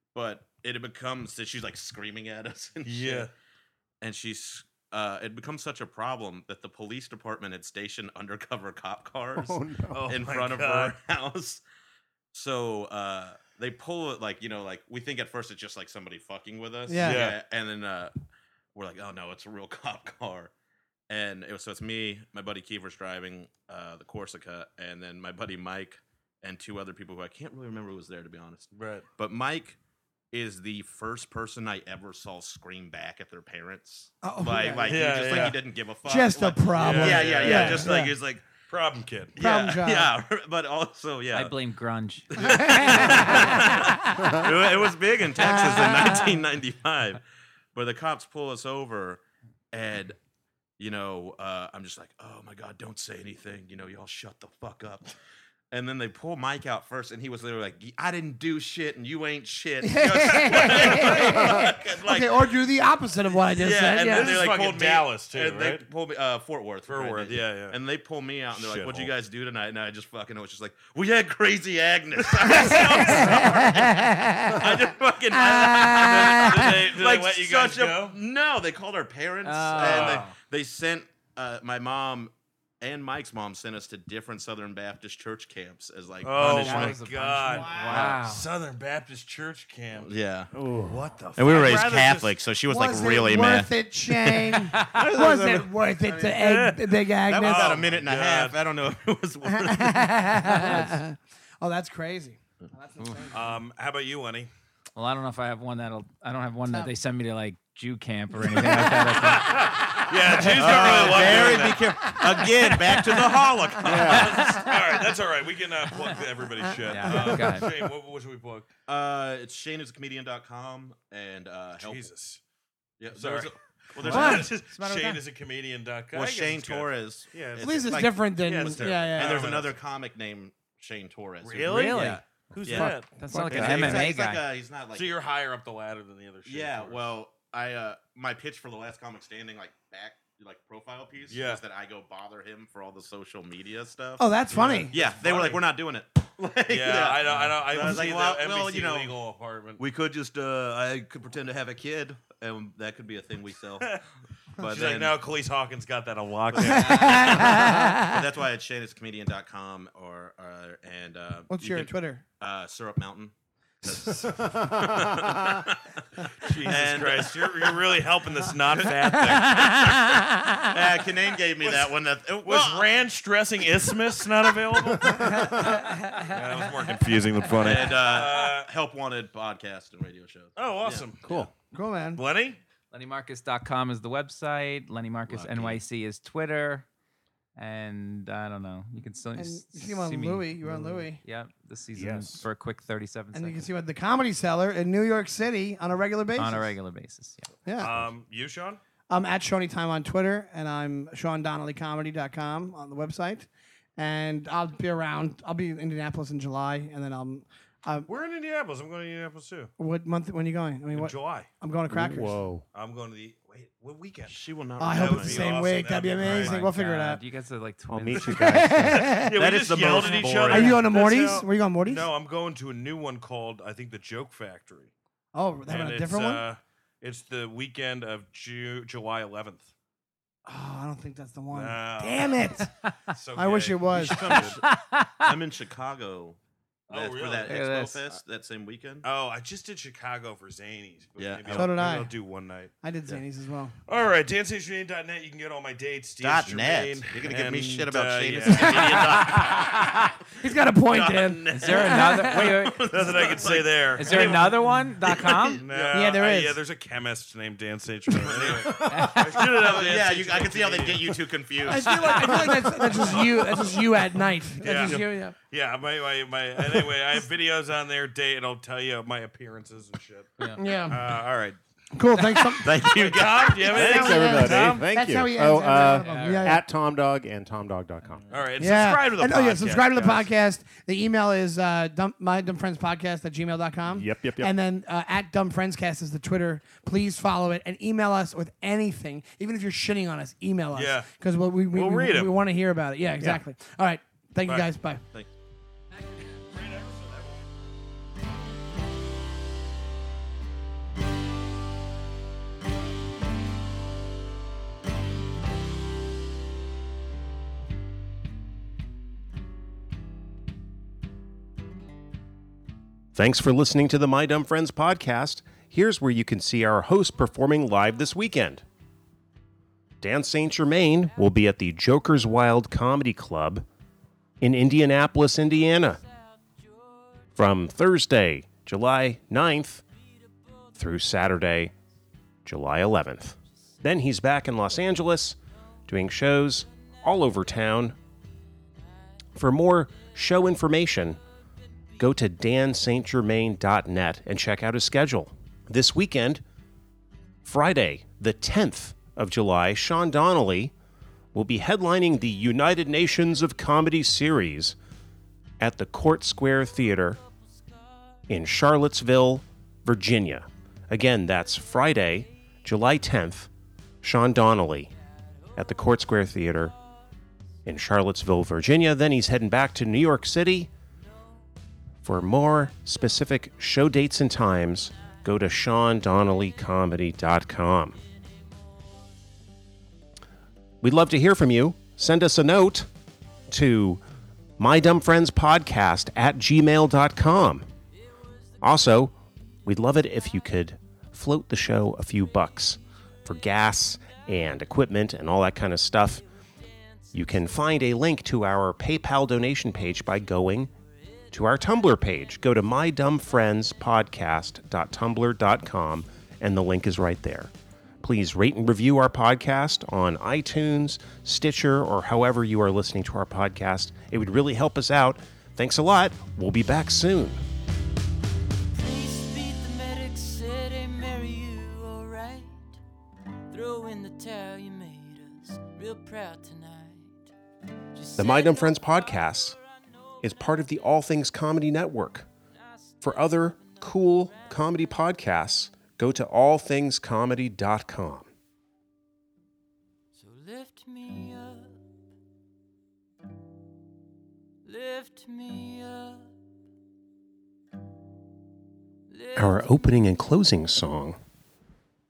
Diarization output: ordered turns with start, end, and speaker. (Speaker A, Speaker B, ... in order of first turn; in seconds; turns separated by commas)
Speaker A: 0.1-3.3, Speaker B: 2.8-3.3, Speaker A: 4.0-11.6, Speaker C: 9.4-9.9, Speaker B: 9.9-10.9, Speaker A: 12.3-18.1, Speaker D: 16.9-17.2, Speaker B: 17.0-17.4, Speaker A: 18.7-20.5, Speaker A: 21.1-29.8, Speaker B: 28.7-29.1, Speaker A: 30.3-38.5, Speaker D: 34.2-35.5, Speaker B: 34.8-35.6, Speaker D: 36.0-38.1, Speaker B: 36.7-38.1, Speaker B: 38.7-39.4, Speaker A: 39.3-41.5, Speaker D: 39.4-40.1, Speaker E: 41.3-43.7, Speaker A: 42.3-47.2, Speaker D: 45.3-46.4, Speaker A: 47.7-50.2, Speaker A: 50.8-55.1, Speaker A: 55.7-62.6, Speaker D: 59.8-64.4, Speaker B: 60.4-61.5, Speaker A: 63.5-88.2, Speaker B: 63.9-65.8, Speaker B: 66.9-67.8, Speaker B: 68.5-69.1, Speaker B: 72.2-73.8, Speaker D: 75.7-76.3, Speaker B: 75.8-78.2, Speaker E: 79.4-80.3, Speaker B: 79.8-80.3, Speaker B: 86.2-90.1, Speaker E: 86.4-88.4, Speaker A: 89.9-90.5, Speaker C: 90.5-91.0, Speaker B: 90.8-92.4, Speaker A: 91.3-96.5, Speaker D: 92.7-97.8, Speaker B: 96.2-98.6, Speaker A: 97.2-100.3, Speaker D: 99.5-103.6, Speaker E: 100.4-100.9, Speaker E: 103.0-103.3, Speaker B: 103.3-104.5, Speaker E: 105.0-109.7, Speaker B: 108.5-112.0, Speaker D: 110.4-112.8, Speaker A: 110.4-114.7, Speaker C: 113.8-114.3, Speaker B: 113.8-118.7, Speaker E: 116.9-117.7, Speaker A: 118.9-122.0, Speaker B: 121.8-122.4, Speaker A: 123.0-124.5, Speaker B: 123.1-129.8, Speaker E: 124.0-125.2, Speaker D: 124.0-124.5, Speaker A: 126.1-132.9, Speaker D: 127.6-129.4, Speaker B: 131.4-134.0, Speaker E: 131.6-132.2, Speaker D: 132.7-134.1, Speaker E: 132.8-134.4, Speaker A: 133.5-135.1, Speaker B: 134.9-137.1, Speaker A: 136.4-149.1, Speaker B: 141.3-141.6, Speaker D: 144.2-144.9, Speaker B: 144.5-145.6, Speaker B: 146.7-149.8, Speaker A: 149.8-154.0, Speaker A: 154.6-155.2, Speaker B: 154.6-157.7, Speaker A: 156.5-163.3, Speaker D: 156.7-158.2, Speaker D: 161.5-162.2, Speaker A: 163.8-166.0, Speaker B: 166.4-170.0, Speaker A: 166.6-167.8, Speaker A: 168.7-172.8, Speaker B: 171.6-178.7, Speaker D: 175.1-176.3, Speaker A: 177.5-181.1, Speaker B: 180.6-181.5, Speaker C: 181.2-181.5, Speaker D: 181.7-182.2, Speaker B: 182.1-182.6, Speaker E: 182.9-186.8, Speaker A: 185.3-185.8, Speaker E: 187.6-190.6, Speaker D: 189.3-191.2, Speaker C: 190.7-191.0, Speaker E: 191.2-193.6, Speaker C: 191.9-192.5, Speaker D: 193.3-196.7, Speaker E: 196.3-197.5, Speaker D: 197.7-197.9, Speaker B: 197.8-198.8, Speaker D: 199.1-208.1, Speaker B: 208.1-209.7, Speaker D: 209.8-212.4, Speaker B: 210.9-211.5, Speaker C: 211.9-212.6, Speaker B: 212.7-216.6, Speaker A: 214.2-215.5, Speaker D: 214.8-217.2, Speaker E: 216.2-219.0, Speaker C: 217.9-219.1, Speaker D: 218.2-219.3, Speaker B: 218.9-224.9, Speaker A: 219.3-221.0, Speaker D: 220.5-222.1, Speaker D: 225.3-226.4, Speaker B: 225.7-229.7, Speaker D: 230.4-232.7, Speaker B: 231.5-232.5, Speaker B: 233.1-234.6, Speaker D: 233.3-234.3, Speaker A: 233.9-234.6, Speaker E: 234.3-235.3, Speaker A: 235.2-236.4, Speaker B: 236.9-237.5, Speaker A: 236.9-239.1, Speaker E: 237.4-238.1, Speaker B: 239.0-242.7, Speaker A: 241.2-241.8, Speaker D: 241.5-242.1, Speaker D: 242.8-243.7, Speaker B: 243.9-249.6, Speaker A: 246.2-256.0, Speaker D: 248.5-252.6, Speaker E: 251.5-252.9, Speaker B: 252.9-254.5, Speaker E: 253.9-255.6, Speaker B: 255.6-264.0, Speaker D: 255.9-256.6, Speaker A: 258.2-262.2, Speaker C: 258.7-259.1, Speaker E: 258.9-259.2, Speaker D: 261.6-265.3, Speaker B: 264.6-270.3, Speaker E: 270.4-270.6, Speaker D: 270.6-271.0, Speaker B: 270.8-271.6, Speaker D: 271.9-272.8, Speaker B: 272.3-274.8, Speaker A: 272.6-273.7, Speaker D: 273.4-276.7, Speaker C: 273.7-278.2, Speaker E: 275.9-276.6, Speaker B: 278.3-280.1, Speaker D: 278.6-295.0, Speaker C: 279.9-280.2, Speaker C: 283.9-284.5, Speaker B: 290.7-291.1, Speaker B: 291.7-292.3, Speaker B: 294.4-294.7, Speaker B: 296.4-297.4, Speaker C: 313.1-318.6, Speaker C: 320.0-323.6, Speaker C: 324.4-326.0, Speaker C: 327.4-329.8, Speaker C: 330.7-331.7, Speaker C: 332.4-335.4, Speaker C: 335.9-337.9, Speaker C: 339.3-341.2, Speaker C: 342.0-346.4, Speaker C: 347.4-350.7, Speaker C: 351.3-354.7, Speaker C: 355.6-357.2, Speaker C: 358.3-363.5, Speaker C: 364.0-364.9, Speaker C: 365.6-366.7, Speaker C: 367.6-370.7, Speaker C: 372.0-378.0, Speaker C: 380.8-382.9, Speaker C: 383.5-384.0, Speaker C: 384.6-387.7, Speaker C: 388.6-389.1, Speaker C: 389.6-396.2, Speaker C: 397.1-400.7, Speaker C: 401.3-407.5, Speaker C: 408.0-417.4, Speaker F: 418.7-422.8, Speaker F: 423.5-427.2, Speaker F: 427.9-428.9, Speaker C: 428.1-429.6, Speaker C: 430.2-432.3, Speaker F: 432.9-434.4, Speaker C: 433.0-438.3, Speaker F: 440.1-441.8, Speaker F: 444.6-446.3, Speaker F: 449.1-450.1, Speaker C: 449.3-451.2